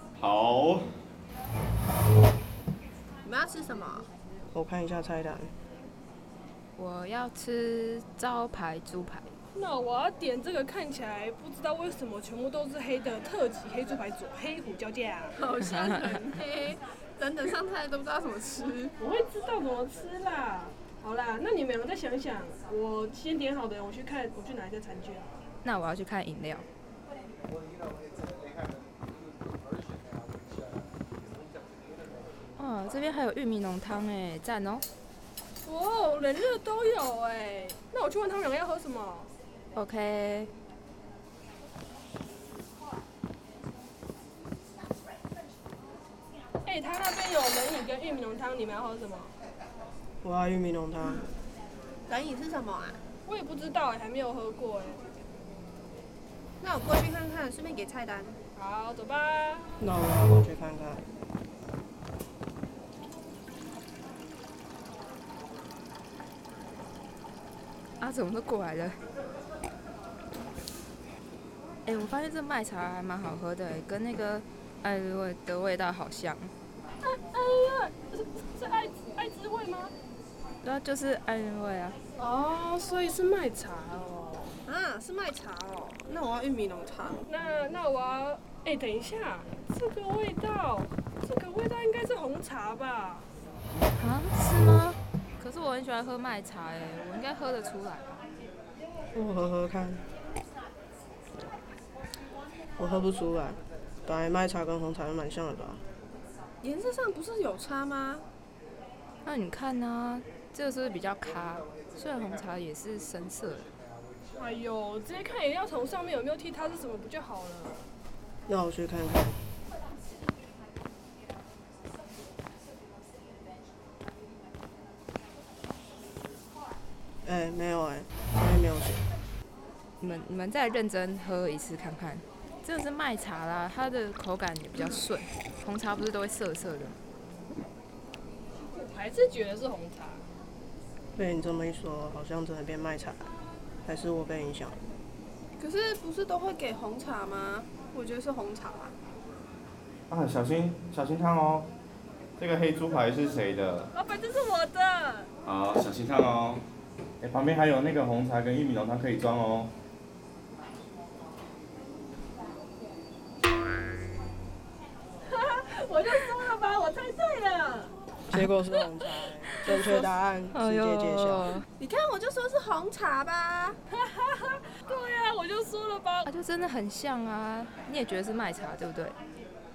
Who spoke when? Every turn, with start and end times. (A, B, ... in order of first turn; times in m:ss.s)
0:00.2-0:00.9 A
0:03.2-0:04.1 B
0:04.5-0:05.5 C
0:06.8-0:09.3 D
0:09.5-0:15.4 E
0:15.3-0:18.9 B
0:15.7-0:16.0 D
0:19.0-0:25.3 E
0:25.6-0:26.6 D
0:32.6-0:34.8 D
0:35.6-0:39.3 E
0:39.7-0:40.5 D
0:46.6-0:49.3 E
0:50.2-0:51.2 C
0:52.1-0:53.0 B
0:53.2-0:55.1 E
0:56.6-0:58.4 B
0:58.6-0:59.7 E
0:59.8-1:01.0 C
1:08.0-1:09.0 D
1:11.8-1:16.5 D
1:17.0-1:19.9 E
1:20.6-1:22.0 D
1:22.2-1:24.6 E
1:24.6-1:27.2 B
1:27.2-1:33.2 E
1:33.9-1:38.2 D
1:39.1-1:40.0 C
1:42.8-1:45.8 C
1:46.6-1:48.2 B
1:49.2-1:53.7 D
1:54.4-1:57.8 E
1:58.5-1:59.4 C
2:07.2-2:09.0 C
2:10.0-2:17.0 D
2:18.7-2:20.2 E
2:21.2-2:23.3 C
2:23.8-2:24.8 C
2:25.6-2:28.9 B
2:30.1-2:31.7 A
2:32.4-2:33.9 A
2:33.9-2:35.3 E
2:35.4-2:36.6 A
2:37.2-2:39.7 A
2:45.3-2:47.9 E
2:48.3-2:51.6 C
2:49.6-2:51.6 D
2:51.8-2:53.8 B
2:53.9-2:56.3 E
2:56.2-2:59.1 D